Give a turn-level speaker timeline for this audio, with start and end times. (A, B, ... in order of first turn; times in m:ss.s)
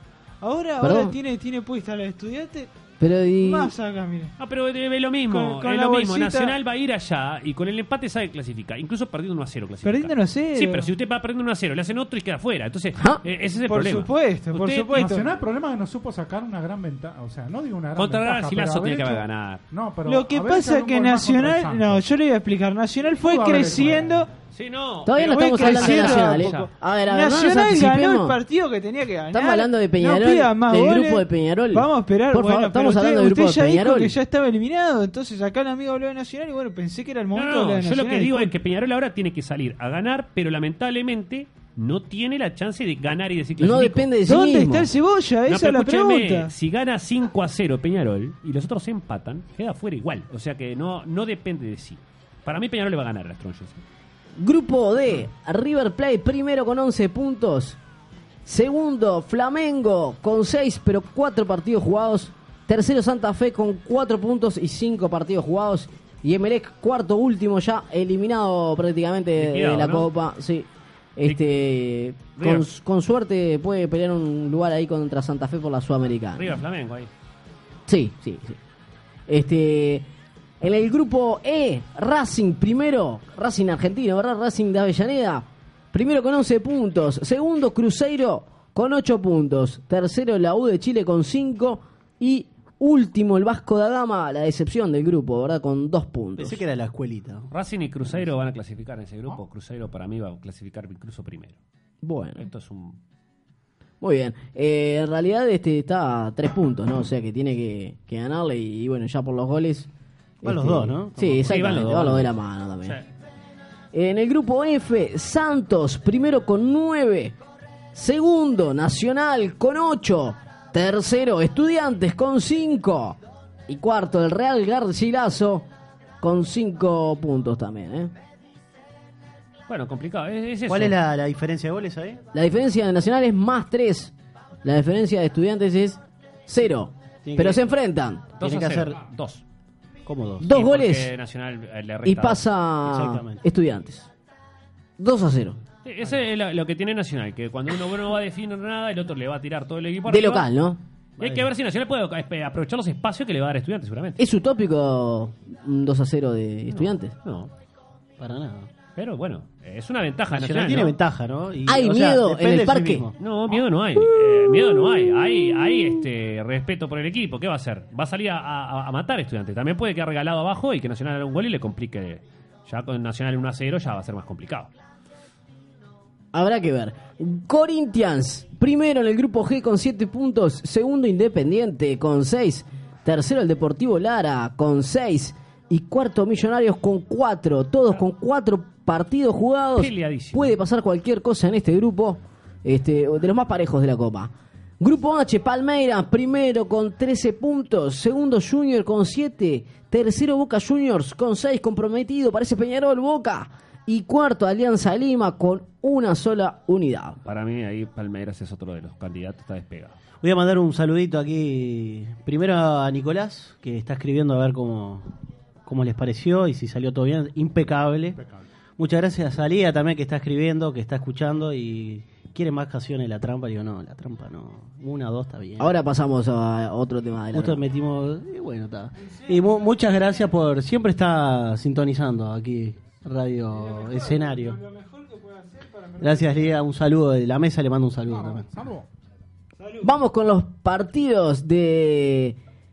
0:00.4-0:02.7 A
0:00.8-0:01.2 B
0:03.0-0:03.7 B
0:03.4-0:04.3 A
0:04.4-0:15.2 C
0:05.3-0:06.6 A
0:09.8-0:10.9 A
0:13.7-0:15.2 A
0:15.0-0:22.0 D
0:18.0-0:19.6 C
0:20.1-0:24.3 A
0:23.2-0:24.3 D
0:24.5-0:26.7 C
0:25.0-0:28.4 B
0:25.2-0:38.5 A
0:29.3-0:34.1 B
0:37.3-0:44.1 C
0:43.6-0:44.9 B
0:44.3-0:46.5 A
0:45.5-0:53.8 C
0:54.4-0:57.8 B
0:58.4-1:16.6 B
1:09.4-1:10.1 C
1:12.4-1:12.7 C
1:16.4-1:17.1 C
1:17.9-1:18.6 B
1:19.3-1:20.1 B
1:20.6-1:36.6 B
1:36.4-1:37.5 E
1:37.5-1:41.6 C
1:42.0-1:42.5 B
1:42.4-1:43.0 C
1:44.0-1:49.9 B
1:50.4-1:53.0 B
1:50.4-1:52.0 E
1:51.5-1:52.3 C
1:53.9-1:57.4 B
1:57.9-2:05.7 B
2:06.2-2:08.1 B
2:09.7-2:11.0 C
2:10.7-2:12.2 E
2:12.3-2:14.1 B
2:14.6-2:18.3 B
2:17.2-2:17.6 E
2:18.4-2:19.4 C
2:18.4-2:19.0 E
2:20.0-2:20.5 E
2:20.4-2:21.1 B
2:20.5-2:22.4 C
2:22.0-2:24.1 B
2:22.9-2:23.4 E
2:25.0-2:25.6 B
2:25.8-2:30.5 C
2:30.1-2:30.8 B
2:31.2-2:31.5 E
2:31.2-2:34.2 C
2:34.2-2:37.1 B
2:36.7-2:37.5 C
2:38.2-2:38.7 E
2:39.0-2:41.0 C
2:40.3-2:43.2 E
2:41.7-2:43.1 B
2:43.2-2:54.7 C
2:56.3-3:27.2 B
3:09.8-3:10.5 C
3:27.2-3:30.0 C
3:30.2-3:35.1 E
3:35.6-3:38.2 E
3:38.2-3:38.5 D
3:38.8-3:45.7 E
3:45.6-3:47.6 B
3:47.3-3:54.6 E
3:49.0-3:49.8 A
3:53.6-3:56.5 A
3:56.0-3:58.5 E
3:58.0-3:58.9 D
3:59.6-3:59.9 A
3:59.8-4:02.4 B